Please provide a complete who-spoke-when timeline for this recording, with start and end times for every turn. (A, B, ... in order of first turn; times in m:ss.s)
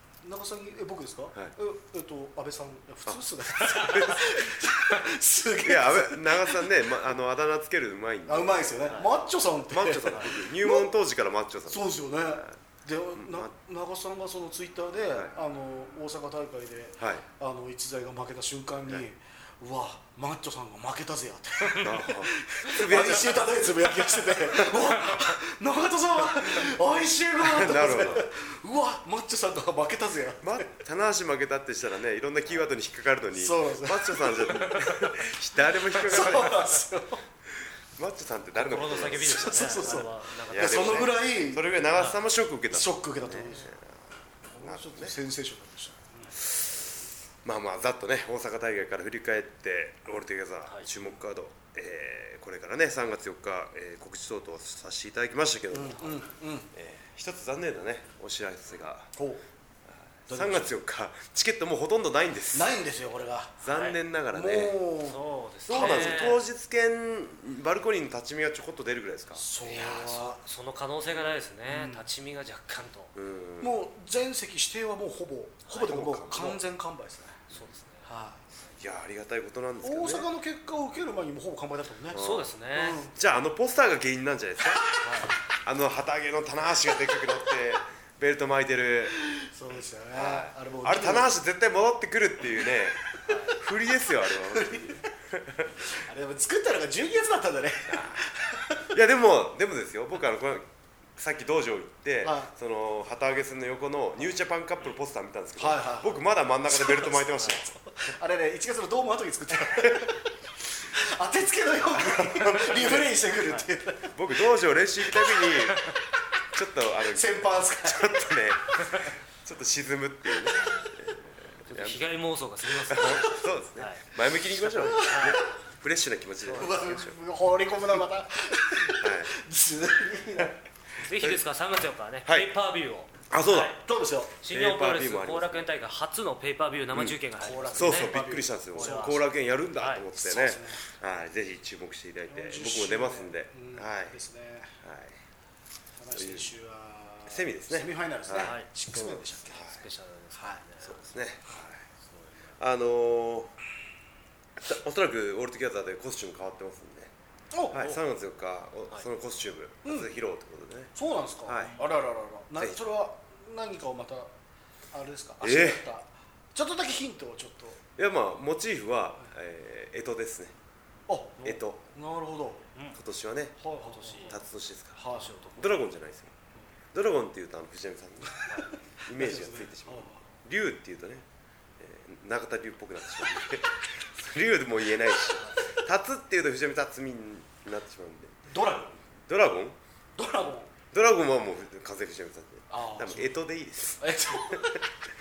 0:00.2-0:06.6 A
0:03.0-0:04.5 B
0:05.6-0:09.0 B
0:08.3-0:10.9 A
0:09.7-0:12.6 B
0:11.7-0:30.7 A
0:13.1-0:13.5 B
0:17.0-0:17.2 B
0:21.8-0:25.0 B
0:27.4-0:28.3 B
0:30.4-0:36.8 B
0:33.4-0:34.9 A
0:36.0-0:37.2 A
0:38.0-0:39.7 B
0:38.5-0:41.1 C
0:39.3-0:41.6 A
0:40.4-0:45.1 B
0:42.7-0:43.7 A
0:44.5-0:46.4 A
0:46.5-0:46.9 B
0:47.4-0:59.1 B
0:55.7-0:56.7 A
0:59.2-0:59.4 A
1:00.3-1:02.7 B
1:00.3-1:00.7 A
1:02.5-1:03.6 A
1:03.6-1:04.8 B
1:03.7-1:04.0 C
1:04.3-1:06.4 A
1:05.0-1:06.4 C
1:05.7-1:09.4 B
1:09.4-1:10.4 A
1:09.6-1:13.1 C
1:11.7-1:12.0 A
1:13.1-1:13.8 B
1:13.6-1:17.4 A
1:15.7-1:16.6 B
1:17.5-1:18.1 C
1:18.0-1:18.4 A
1:18.8-1:20.3 B
1:19.8-1:22.2 A
1:22.1-1:22.5 B
1:22.1-1:23.0 C
1:22.7-1:23.1 A
1:23.1-1:24.9 B
1:25.0-1:25.3 C
1:25.6-1:29.2 B
1:29.1-1:31.3 A
1:30.1-1:35.9 B
1:33.3-1:33.6 A
1:33.3-1:33.6 C
1:34.5-1:35.1 A
1:35.9-1:38.9 A
1:37.9-1:38.2 B
1:38.9-1:47.7 B
1:42.2-1:42.5 A
1:45.6-1:54.1 A
1:49.6-1:50.1 B
1:51.9-1:53.2 B
1:54.1-1:55.9 B
1:56.5-2:02.0 B
1:57.1-1:58.3 A
2:01.7-2:05.5 C
2:02.9-2:07.2 B
2:04.8-2:05.6 A
2:06.4-2:07.0 C
2:06.5-2:10.6 A
2:08.8-2:09.3 B
2:10.4-2:11.4 B
2:11.0-2:13.8 C
2:12.2-2:12.5 B
2:13.3-2:13.7 B
2:13.8-2:14.4 A
2:14.4-2:18.2 C
2:14.5-2:15.7 B
2:16.9-2:17.2 B
2:17.4-2:19.2 A
2:17.8-2:24.2 B
2:18.7-2:19.2 C
2:19.8-2:20.0 C
2:20.2-2:20.8 A
2:22.3-2:24.8 A
2:24.8-2:25.2 B
2:26.0-2:29.6 A
2:26.1-2:26.5 B
2:27.3-2:29.8 B
2:28.3-2:28.7 C
2:29.5-2:31.1 C
2:30.3-2:30.6 A
2:30.8-2:31.8 B
2:32.6-2:33.6 B
2:34.6-2:37.1 B
2:37.5-2:37.9 A
2:37.7-2:40.9 B
2:39.8-2:40.1 A
2:40.9-2:44.3 A
2:41.4-2:41.8 B
2:44.9-2:47.8 A
2:45.4-2:45.8 B
2:48.0-2:50.5 B
2:51.1-2:52.7 A
2:51.4-2:51.9 B
2:52.9-2:53.6 B
2:53.6-2:54.4 A
2:53.8-2:54.4 C
2:54.3-2:55.0 B
2:55.0-2:55.4 A
2:55.0-2:55.7 C
2:55.6-2:56.3 B
2:56.9-2:58.5 B
2:58.3-3:00.2 A
2:59.0-3:01.2 B
3:01.8-3:08.4 B
3:08.5-3:09.0 A
3:09.3-3:09.8 B
3:10.2-3:10.7 A
3:10.9-3:14.8 B
3:12.7-3:13.4 A
3:14.0-3:14.8 A